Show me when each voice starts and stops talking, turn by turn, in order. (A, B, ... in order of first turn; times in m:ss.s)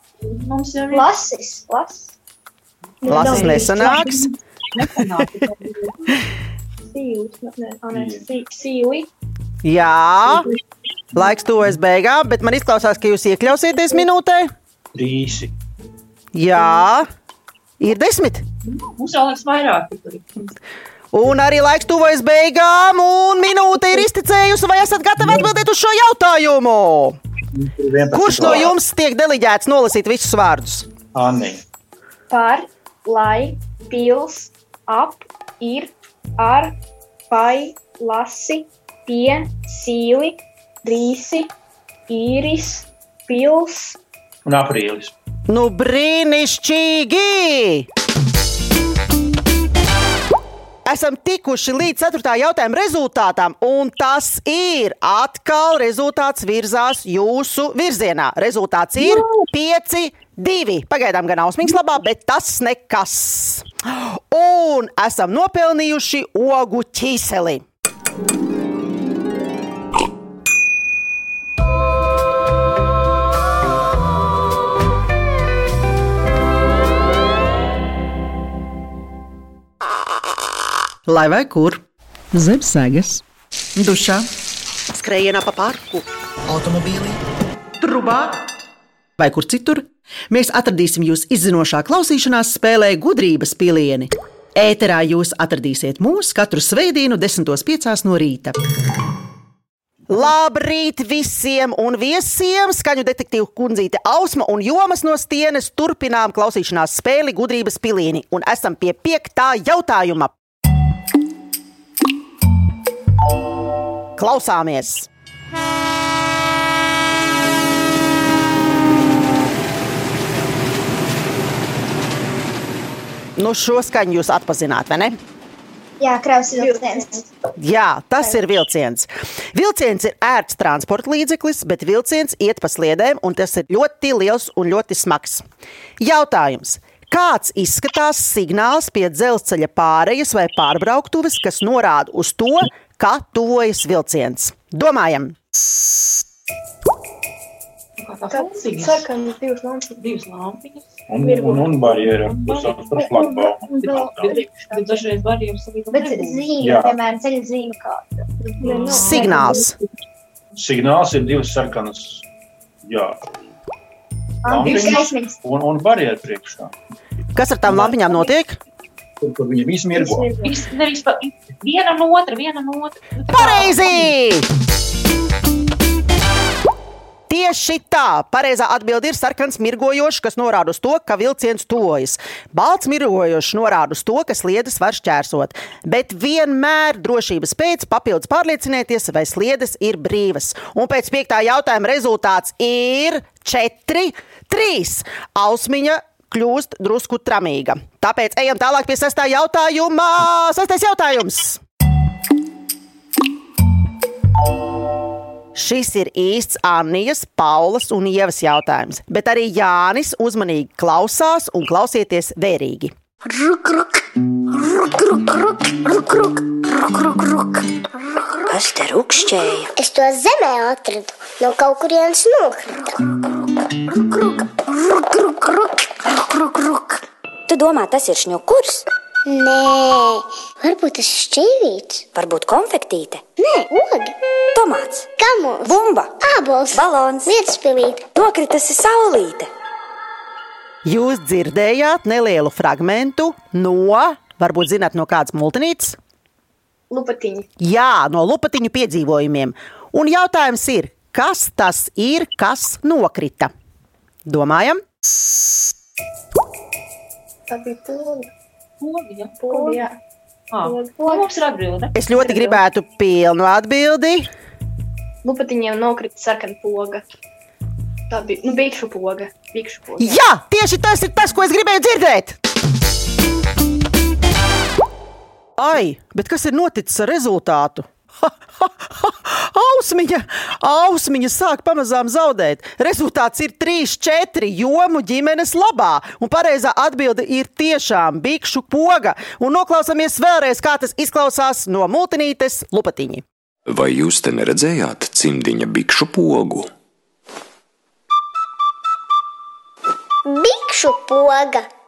0:00.2-0:01.1 A
0:00.9-0:02.2 B
0:03.0-0:05.8 A
0:03.1-0:03.7 B
0:03.1-0:04.1 C
0:03.1-0:04.3 D
0:06.8-0:09.1 C
0:07.9-0:08.3 E
0:09.6-0:10.5 D
0:11.2-0:14.5 D
0:14.9-0:15.5 E
0:16.3-0:17.1 D
0:17.8-0:18.4 D
0:18.6-0:20.5 A
0:21.1-0:27.2 D
0:25.2-0:25.5 E
0:27.5-0:28.7 E
0:28.1-0:30.9 D
0:31.1-0:31.6 E
0:32.3-0:36.8 C
0:37.3-0:41.5 C
0:42.1-0:44.0 C
0:44.5-0:45.1 E
0:45.5-0:47.9 D
0:50.9-1:07.6 D
1:21.1-1:23.2 D
1:23.8-1:24.3 D
1:24.9-1:27.2 D
1:27.8-1:28.4 D
1:29.2-1:38.6 D
1:40.1-1:50.3 D
1:54.2-1:55.1 D
2:03.4-2:05.2 D
2:06.0-2:07.2 B
2:06.5-2:07.3 C
2:07.6-2:15.4 D
2:16.0-2:25.4 D
2:28.0-2:29.1 A
2:28.3-2:30.0 C
2:30.0-2:31.0 A
2:31.1-2:34.4 E
2:31.2-2:32.7 C
2:32.4-2:32.8 A
2:33.0-2:33.2 B
2:33.8-2:36.5 A
2:33.8-2:35.0 C
2:35.9-2:39.7 B
2:36.6-2:37.0 E
2:38.4-2:39.5 C
2:38.6-2:39.6 A
2:38.9-2:39.8 D
2:40.6-2:42.2 E
2:42.8-2:43.2 E
2:44.4-2:45.4 B
2:44.4-2:46.7 E
2:47.4-2:48.6 D
2:49.2-2:50.3 E
2:50.0-2:50.5 C
2:50.4-2:54.1 A
2:53.3-2:54.5 D
2:57.3-3:21.6 D
3:25.6-3:32.9 D
3:35.9-3:36.3 F
3:38.5-3:39.7 G
3:39.8-3:43.0 F
3:45.0-3:45.6 F
3:46.4-3:47.0 F
3:47.5-3:48.9 G
3:49.3-3:52.0 F
3:52.1-3:53.2 G
3:53.4-3:54.2 F
3:54.5-3:55.1 G
3:55.2-3:58.1 F
3:55.6-3:56.1 G
3:56.7-3:57.3 G
3:58.1-3:59.5 G
4:00.8-4:06.0 D
4:06.9-4:07.5 C
4:07.6-4:13.5 D
4:14.3-4:14.8 D
4:17.5-4:18.3 C
4:18.8-4:19.4 A
4:19.4-4:20.0 C
4:19.5-4:19.8 B
4:20.5-4:22.0 A
4:20.6-4:21.3 B
4:22.0-4:24.3 D
4:25.2-4:27.0 C
4:28.1-4:30.2 C
4:30.0-4:32.4 D
4:35.6-4:53.2 D
4:53.7-4:56.7 H
5:00.3-5:01.7 F